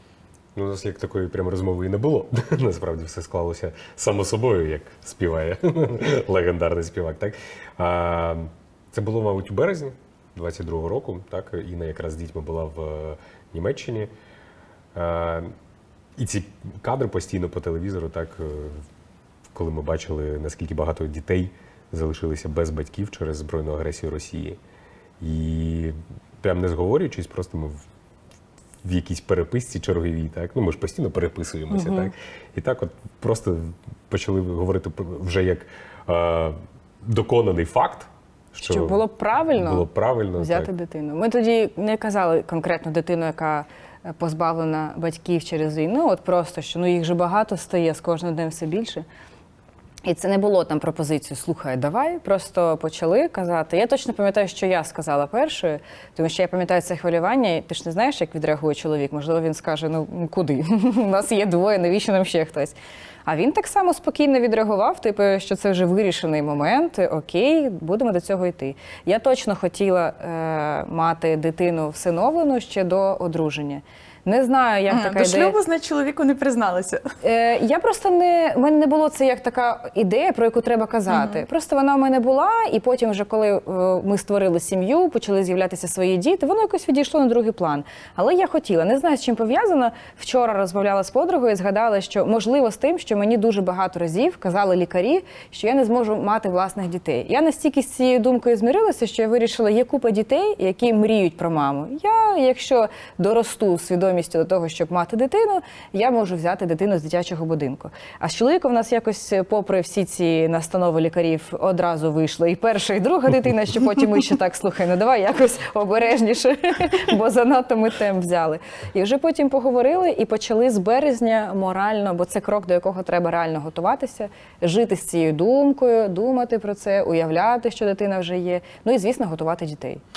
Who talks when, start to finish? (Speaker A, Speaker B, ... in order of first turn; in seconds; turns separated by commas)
Speaker A: 0.5-14.1, Speaker A: 14.9-15.5, Speaker A: 16.2-18.8, Speaker A: 19.5-24.6, Speaker A: 25.2-27.8, Speaker A: 28.8-39.0, Speaker B: 31.7-32.1, Speaker B: 38.6-49.0, Speaker A: 39.5-40.7, Speaker B: 50.0-62.7, Speaker B: 63.2-75.6, Speaker C: 74.9-77.0, Speaker B: 77.2-130.0, Speaker C: 81.1-81.4